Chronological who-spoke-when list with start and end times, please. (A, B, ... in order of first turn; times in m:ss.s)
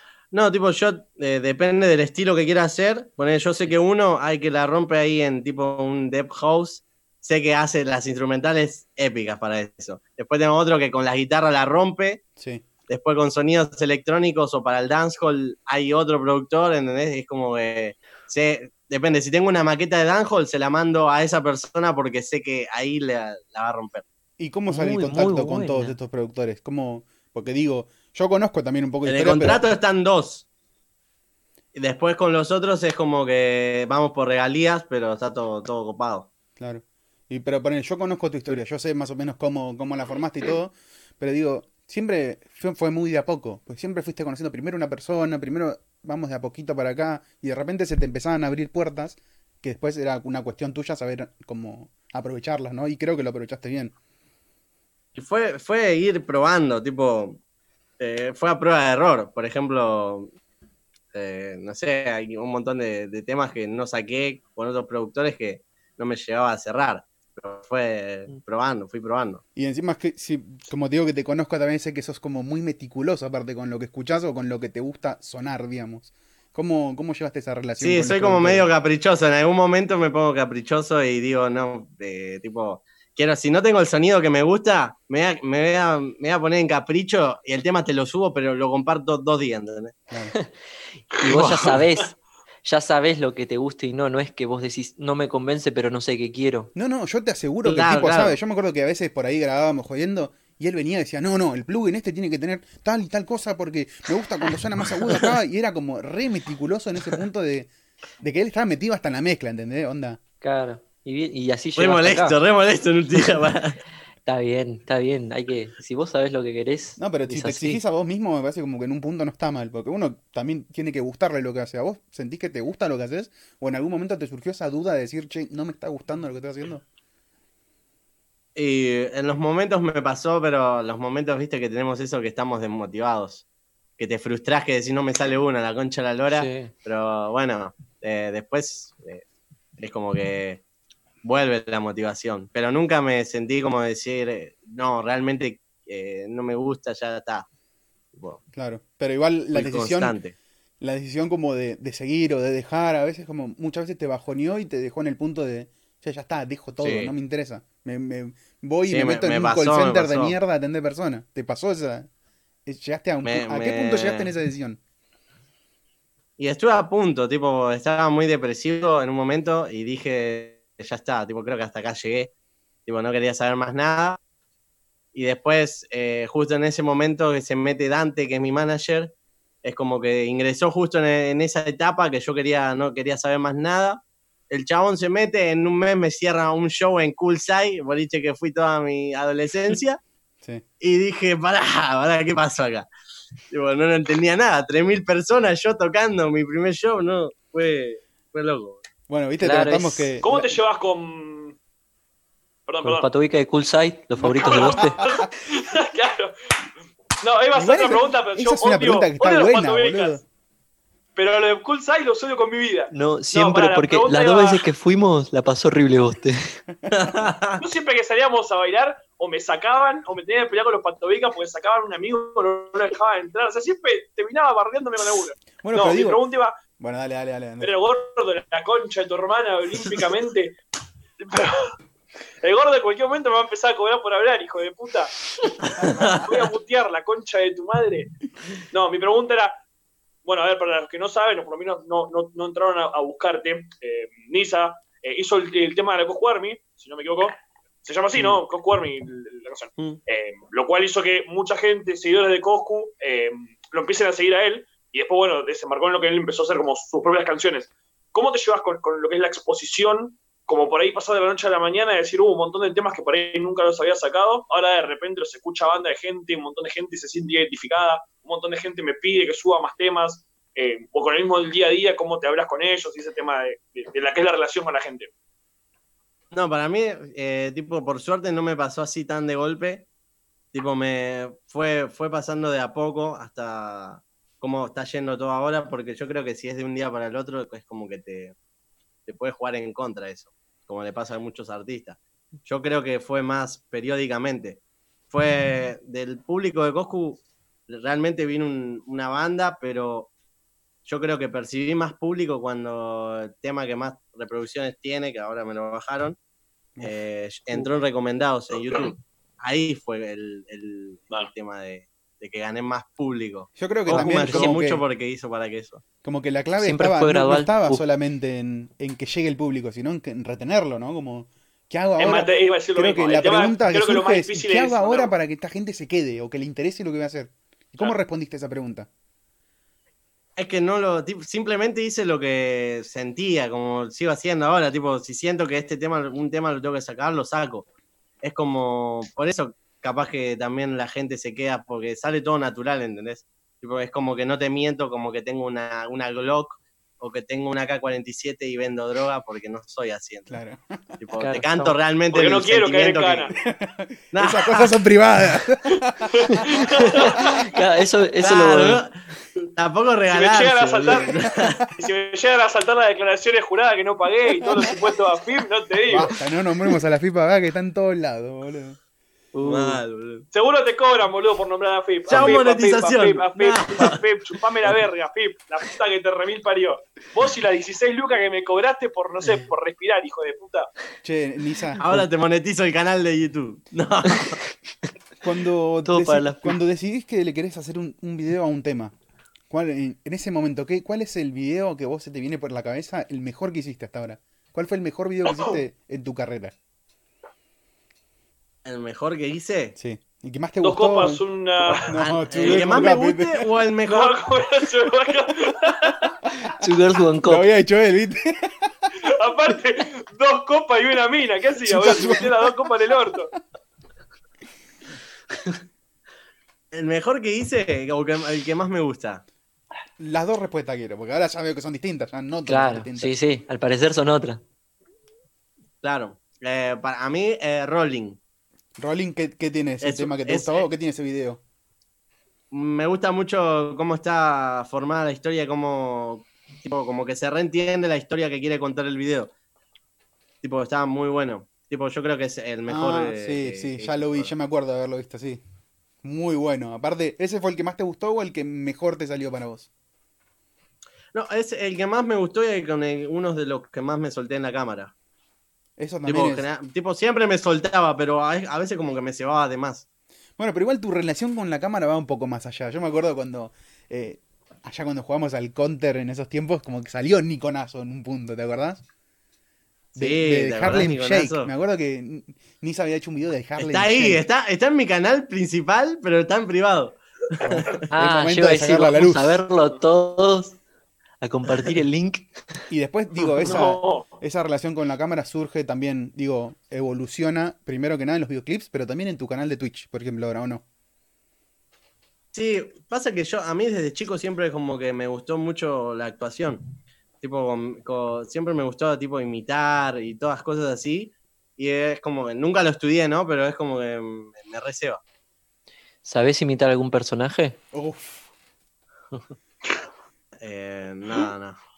0:00.3-0:12.2 A
0:12.4-0:12.6 B
0:12.9-0:24.0 A
0:24.4-0:29.7 B
0:24.7-0:25.9 C
0:29.0-0:30.4 A
0:31.7-0:36.3 A
0:36.6-0:53.9 B
0:55.1-0:57.4 A
0:58.0-1:00.3 A
1:01.1-1:09.4 A
1:09.6-1:18.7 B
1:17.8-1:30.0 A
1:31.1-1:36.7 C
1:31.2-1:31.8 A
1:36.7-1:47.7 B
1:37.6-1:38.4 A
1:48.2-1:50.2 B
1:50.4-1:52.4 C
1:51.8-1:53.8 A
1:54.2-1:57.8 C
1:57.0-2:06.8 B
2:08.6-2:13.4 A
2:14.0-2:19.2 A
2:16.3-2:16.7 C
2:19.8-2:20.6 A
2:21.2-2:27.5 A
2:28.1-2:28.4 A
2:28.5-2:30.2 B
2:29.5-2:30.3 A
2:30.8-2:42.1 B
2:36.8-2:37.1 A
2:38.9-2:40.4 A
2:42.6-2:44.8 B
2:43.2-2:44.3 A
2:46.4-2:52.3 A
2:52.8-2:54.2 A
2:55.1-3:10.0 A
3:10.8-3:12.9 A
3:13.5-3:18.8 A
3:19.1-3:20.5 B
3:19.4-3:20.1 C
3:20.2-3:21.6 D
3:22.7-3:23.1 D
3:22.8-3:25.0 C
3:24.2-3:25.1 B
3:24.3-3:26.3 D
3:27.2-3:30.2 D
3:27.5-3:30.2 B
3:31.2-3:34.6 D
3:32.9-3:36.4 C
3:36.9-3:37.6 A
3:37.6-3:46.6 D
3:45.6-3:46.2 B
3:46.8-3:47.7 B
3:47.6-3:50.6 D
3:51.2-3:51.7 D
3:52.4-3:55.2 D
3:55.8-3:56.2 A
3:55.8-3:59.6 D
4:00.2-4:35.1 D
4:36.3-4:39.9 A
4:40.5-4:48.3 A
4:49.0-5:00.1 A
5:00.8-5:06.2 A
5:06.8-5:15.8 A
5:13.6-5:14.8 B
5:13.9-5:14.5 C
5:16.0-5:28.9 B
5:16.6-5:17.8 C
5:22.0-5:25.1 D
5:30.4-5:37.7 A
5:38.2-5:50.4 A
5:50.3-5:50.8 B
5:51.0-5:53.3 A
5:51.2-5:51.8 C
5:52.1-5:53.3 D
5:53.5-5:56.6 B
5:54.1-5:54.7 A
5:56.1-5:57.4 D
5:56.3-5:58.8 C
5:58.2-5:59.0 A
5:59.6-6:01.6 A
6:00.1-6:06.1 D
6:04.4-6:04.7 B
6:05.9-6:08.8 B
6:09.3-6:09.8 C
6:09.4-6:10.2 A
6:10.3-6:20.7 D
6:12.1-6:14.0 A
6:21.0-6:22.1 B
6:21.8-6:24.4 A
6:25.2-6:28.9 B
6:25.8-6:26.6 C
6:29.5-6:36.5 B
6:35.2-6:35.6 D
6:38.6-6:39.8 A
6:39.8-6:43.5 B
6:40.6-6:42.0 D
6:41.9-6:44.2 A
6:43.9-6:46.1 D
6:46.6-6:47.4 C
6:47.2-6:48.7 B
6:49.0-6:53.3 D
6:51.6-6:52.6 B
6:56.7-6:59.2 A
7:00.0-7:03.1 B
7:02.5-7:04.4 C
7:05.8-7:08.2 A
7:08.8-7:11.4 B
7:09.8-7:10.6 A
7:12.5-7:19.3 A
7:20.4-7:24.3 A
7:22.7-7:25.4 B
7:26.0-7:29.7 B
7:31.1-7:34.9 A
7:35.8-7:36.4 B
7:36.0-7:39.8 A
7:40.4-7:48.8 B
7:49.9-7:51.5 A
7:50.0-7:54.2 B
7:53.6-7:57.8 A
7:57.4-7:59.4 B
7:57.9-8:00.6 C
8:01.2-8:02.3 C
8:02.7-8:10.6 B
8:03.4-8:04.1 D
8:12.3-8:25.0 A
8:26.0-8:27.6 C
8:27.7-8:28.3 B
8:30.4-8:31.6 A